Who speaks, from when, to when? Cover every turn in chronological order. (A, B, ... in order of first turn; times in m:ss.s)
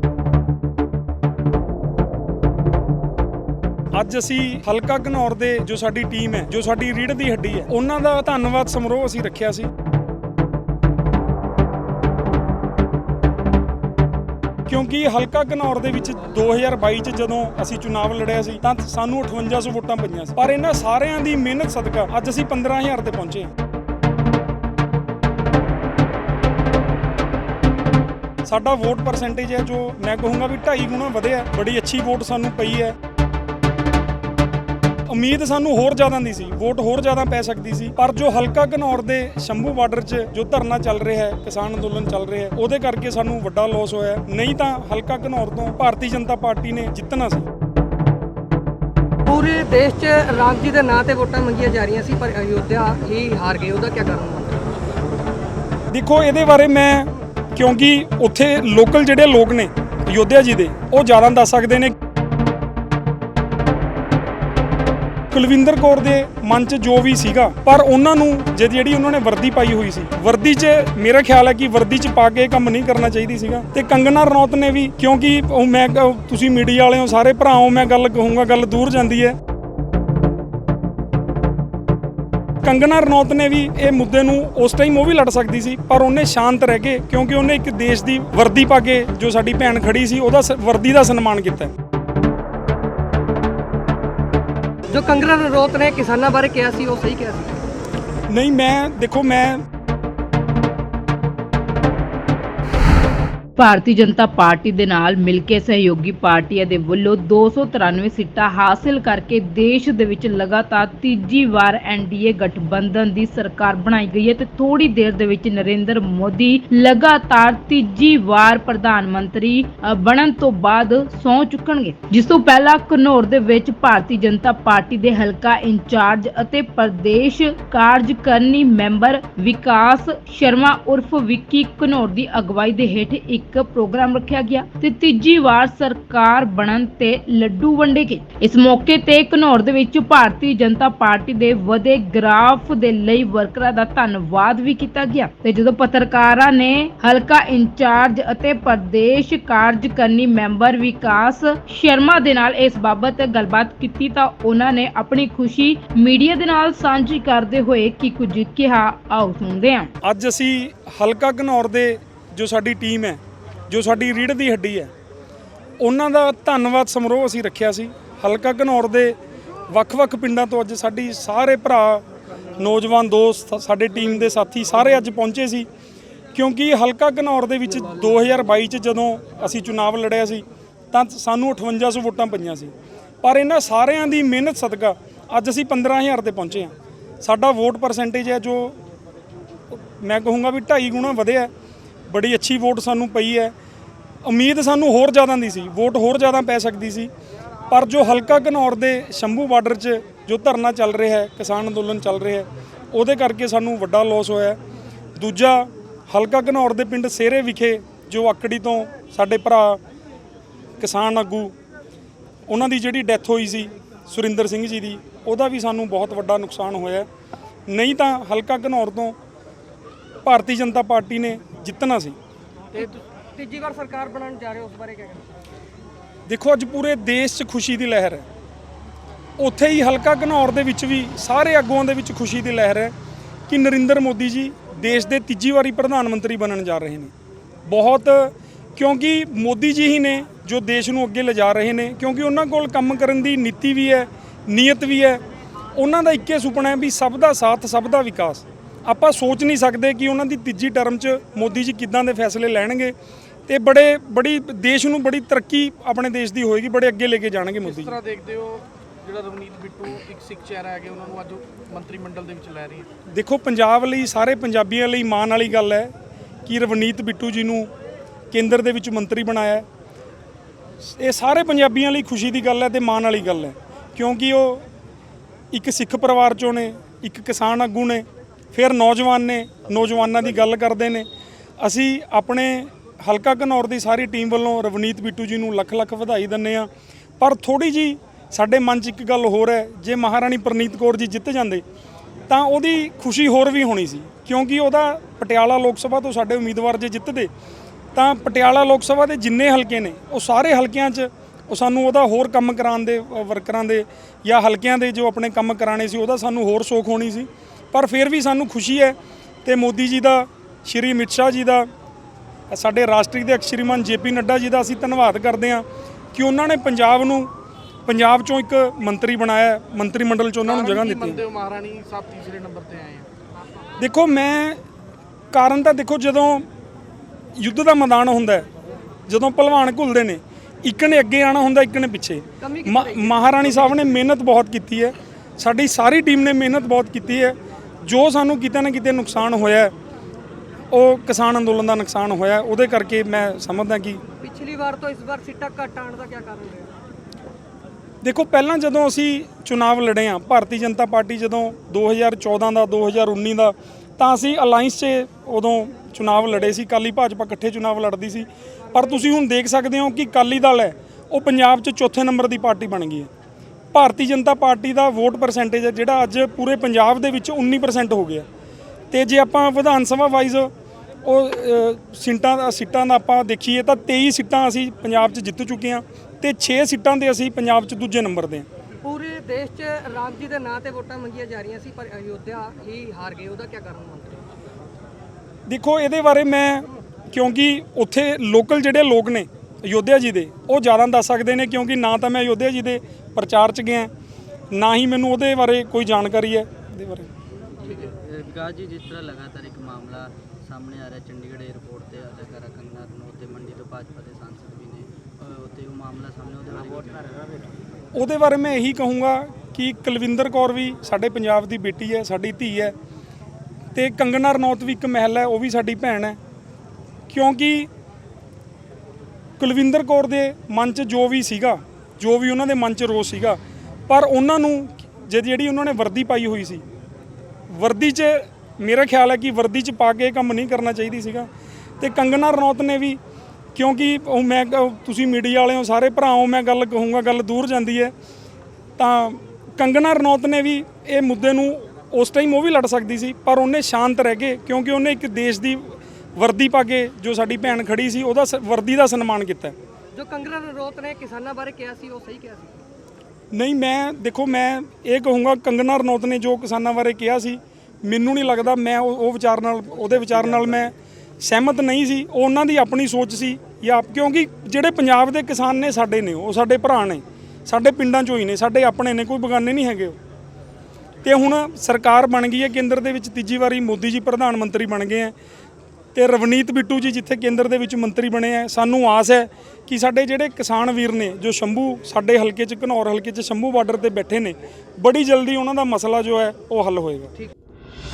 0:03.9-0:09.7 A
0:14.7-0:23.5 A
0:28.4-0:33.0 A
0:35.1-0:47.5 A
0:49.3-0:54.6 B
0:55.9-1:01.9 A
1:05.3-1:19.4 A
1:22.6-1:31.7 A
1:34.9-1:37.6 B
1:38.3-1:39.6 A
1:43.6-2:39.9 C
2:40.0-2:44.9 A
2:45.8-2:49.2 A
2:49.7-2:52.0 A
2:52.6-2:55.7 A
2:56.3-3:08.8 A
3:09.7-3:11.5 A
3:12.1-3:13.6 A
3:14.2-3:17.1 A
3:17.7-3:24.6 A
3:25.2-3:29.8 A
3:30.8-3:31.5 A
3:32.5-3:37.1 A
3:37.7-3:39.2 A
3:40.2-3:42.2 A
3:42.8-3:45.3 B
3:46.3-3:48.3 A
3:49.4-3:52.9 A
3:53.5-3:57.1 A
3:57.7-4:05.2 A
4:05.8-4:13.0 A
4:13.5-4:18.0 A
4:17.6-4:22.9 D
4:23.1-4:25.9 A
4:26.5-4:27.7 A
4:28.3-4:29.7 A
4:30.8-4:34.6 A
4:35.5-4:41.1 A
4:41.6-4:51.6 A
4:52.3-4:57.3 A
4:58.0-5:11.7 A
5:12.5-5:17.3 A
5:17.9-5:21.2 A
5:20.4-5:23.1 D
5:23.8-5:24.6 A
5:25.3-5:26.5 A
5:27.4-5:28.5 A
5:29.1-5:39.7 A
5:32.4-5:34.0 B
5:40.7-5:44.0 A
5:44.2-5:46.7 B
5:48.0-6:03.1 A
6:03.7-6:08.3 A
6:08.9-6:10.5 A
6:11.0-6:18.5 A
6:18.8-6:24.2 B
6:25.5-6:33.9 A
6:34.5-6:37.1 A
6:37.5-6:47.3 E
6:48.0-6:52.8 A
6:53.8-6:56.2 A
6:57.1-6:57.7 A
6:59.4-7:03.4 A
7:03.9-7:06.6 A
7:07.5-7:11.3 A
7:11.8-7:13.0 A
7:13.6-7:17.9 A
7:18.8-7:29.6 A
7:29.9-7:32.6 B
7:33.3-7:50.0 A
7:51.0-7:55.1 A
7:56.0-8:07.1 A